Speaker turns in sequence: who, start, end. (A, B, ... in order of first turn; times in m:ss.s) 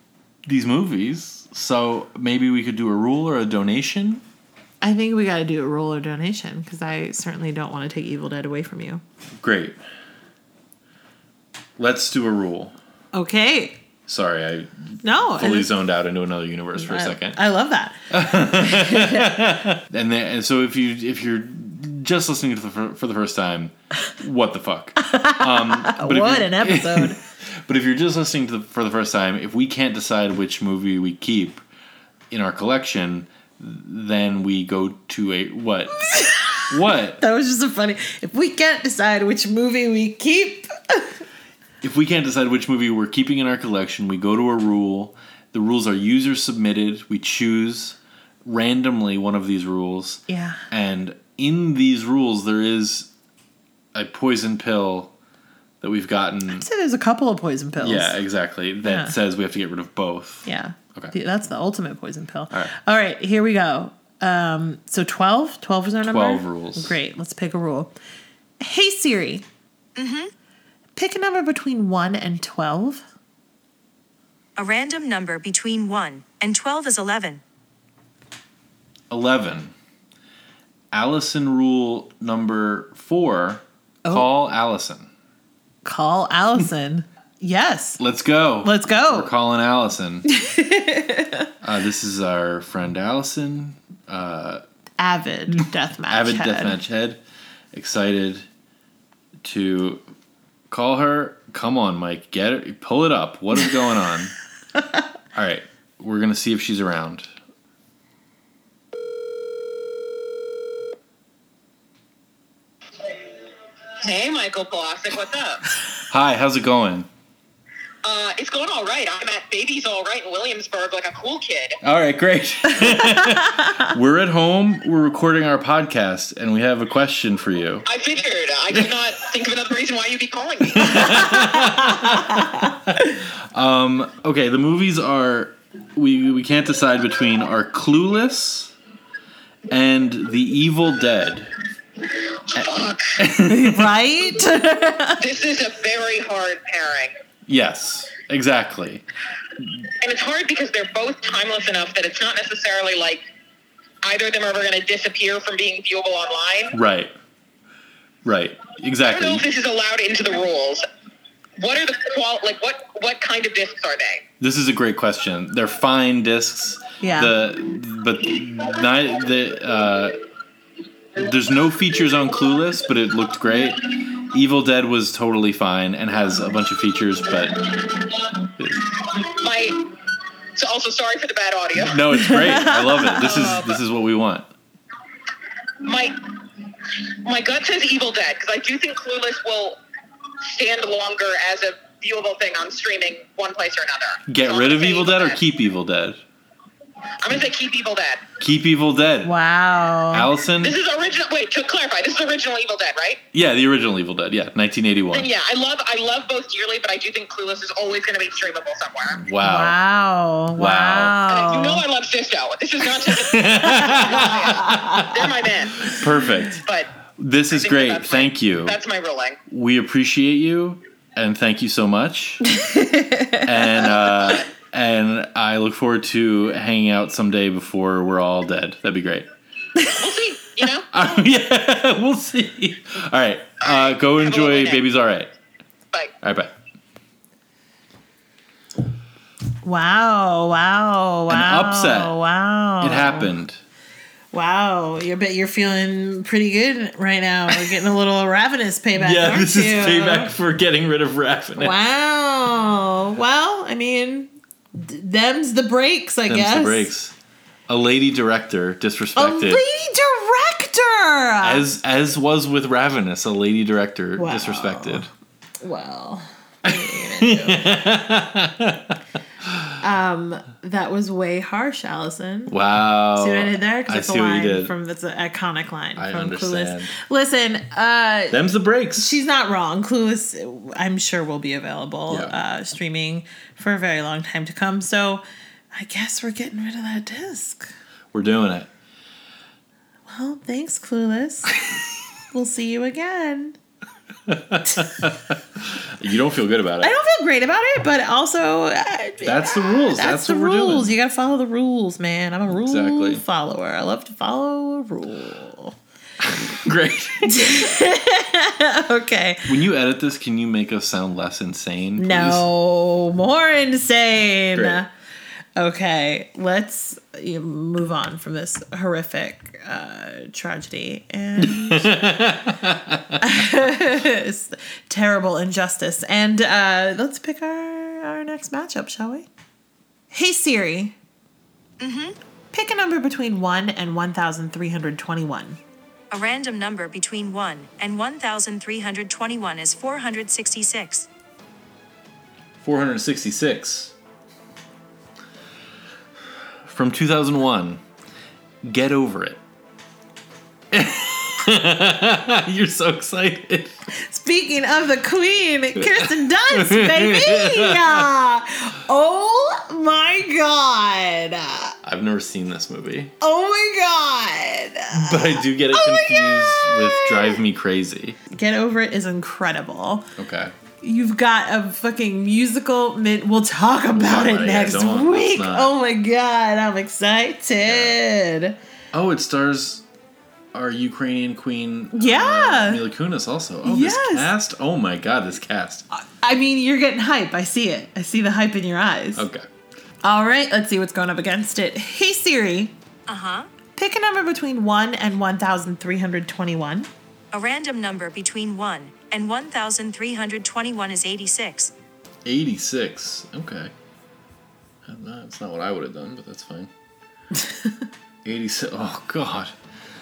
0:00.4-0:04.2 A
0:04.8-0:09.0 B
0:09.4-0:09.8 A
0:11.8-0:12.7 A
0:13.1-0:13.8 B
0:14.1-0:17.4 A
0:15.0-0:15.7 B
0:16.8-0:19.4 B
0:18.1-0:31.6 A
0:25.0-0:27.2 B
0:32.3-0:37.2 A
0:36.0-0:41.2 B
0:41.8-0:53.1 A
0:50.3-0:50.6 B
0:53.9-0:55.1 A
0:55.8-0:56.6 A
0:56.5-0:58.2 B
0:57.8-1:01.1 A
0:58.8-0:59.1 B
1:00.4-1:07.9 B
1:06.0-1:07.0 A
1:08.6-1:09.4 B
1:10.0-1:10.3 C
1:11.0-1:13.1 B
1:14.6-1:17.4 C
1:19.1-1:19.7 A
1:20.9-1:25.1 A
1:25.8-1:28.0 B
1:28.0-1:30.2 A
1:28.6-1:29.3 B
1:30.3-1:31.5 B
1:31.6-1:34.6 A
1:35.0-1:36.8 B
1:35.6-1:37.2 A
1:37.7-1:38.5 A
1:39.4-1:40.0 A
1:40.7-1:44.3 A
1:45.3-1:47.3 A
1:54.0-1:55.7 D
1:56.1-1:57.1 A
1:58.0-2:01.8 D
2:01.8-2:07.8 A
2:02.8-2:03.8 B
2:07.8-2:11.5 D
2:10.7-2:18.7 A
2:11.4-2:13.2 B
2:19.7-2:21.6 A
2:22.5-2:23.1 D
2:22.5-2:23.9 A
2:23.4-2:25.2 B
2:25.2-2:27.1 D
2:27.4-2:29.0 A
2:29.6-2:29.9 A
2:30.0-2:33.2 D
2:34.0-2:36.7 D
2:36.7-2:37.1 A
2:38.2-2:39.4 A
2:39.0-2:40.8 D
2:41.6-2:44.2 D
2:44.4-2:50.2 A
2:47.0-2:47.3 B
2:51.2-2:57.8 A
2:57.8-2:58.2 D
2:58.6-2:59.0 A
2:59.0-2:59.9 D
3:00.5-3:02.0 D
3:01.8-3:04.5 A
3:02.1-3:03.6 B
3:05.8-3:09.8 D
3:10.4-3:15.4 D
3:14.3-3:16.2 A
3:17.2-3:18.3 D
3:18.4-3:19.3 A
3:19.2-3:20.3 B
3:20.1-3:20.8 A
3:20.6-3:23.2 D
3:23.3-3:25.3 A
3:25.1-3:29.2 D
3:29.1-3:29.8 A
3:29.4-3:31.8 B
3:30.6-3:31.1 A
3:31.3-3:36.9 D
3:33.1-3:36.6 A
3:37.2-3:38.8 A
3:37.5-3:39.4 D
3:39.5-3:42.4 A
3:42.4-3:43.7 B
3:43.4-3:49.3 A
3:44.1-3:44.5 D
3:49.8-3:50.9 D
3:50.9-3:55.3 A
3:53.6-3:54.8 D
3:56.2-3:56.5 A
3:59.6-4:03.3 B
4:01.3-4:02.1 A
4:02.8-4:03.6 A
4:04.3-4:10.3 B
4:08.9-4:11.8 A
4:11.6-4:16.9 B
4:16.3-4:17.1 A
4:17.7-4:19.6 A
4:19.2-4:21.6 B
4:21.4-4:25.1 A
4:24.2-4:25.1 B
4:25.6-4:27.7 B
4:26.6-4:29.7 A
4:29.8-4:32.6 B
4:32.5-4:34.7 A
4:33.2-4:38.4 B
4:36.0-4:36.9 A
4:38.3-4:39.2 A
4:39.0-4:45.2 B
4:42.1-4:42.3 A
4:45.7-4:47.7 B
4:48.1-4:48.7 A
4:50.1-4:51.5 B
4:52.3-4:53.6 B
4:54.3-4:57.0 A
4:56.8-5:05.8 B
4:59.2-5:01.0 A
5:02.5-5:03.2 A
5:06.2-5:07.7 A
5:07.2-5:09.5 B
5:09.4-5:12.4 A
5:12.0-5:14.9 B
5:14.5-5:14.8 A
5:15.6-5:22.0 B
5:21.4-5:23.4 A
5:23.2-5:29.3 B
5:30.1-5:31.0 B
5:31.8-5:32.2 C
5:32.5-5:35.6 B
5:36.1-5:41.1 C
5:42.6-5:43.9 A
5:46.6-5:47.8 A
5:48.6-5:49.4 A
5:50.7-5:53.7 A
5:53.9-6:01.8 B
5:55.8-5:58.1 A
6:01.8-6:03.1 A
6:03.2-6:07.4 B
6:04.9-6:08.2 A
6:08.3-6:10.1 B
6:10.2-6:10.6 A
6:10.8-6:18.6 B
6:13.9-6:15.7 A
6:17.6-6:18.0 A
6:18.9-6:19.8 A
6:20.5-6:25.8 A
6:21.9-6:22.8 B
6:23.6-6:24.3 B
6:25.9-6:29.2 B
6:29.2-6:29.5 A
6:30.0-6:32.7 B
6:33.1-6:33.5 C
6:33.8-6:36.9 B
6:37.3-6:41.7 C
6:42.2-6:43.7 A
6:44.8-6:46.7 A
6:47.4-6:47.7 B
6:48.2-6:49.5 A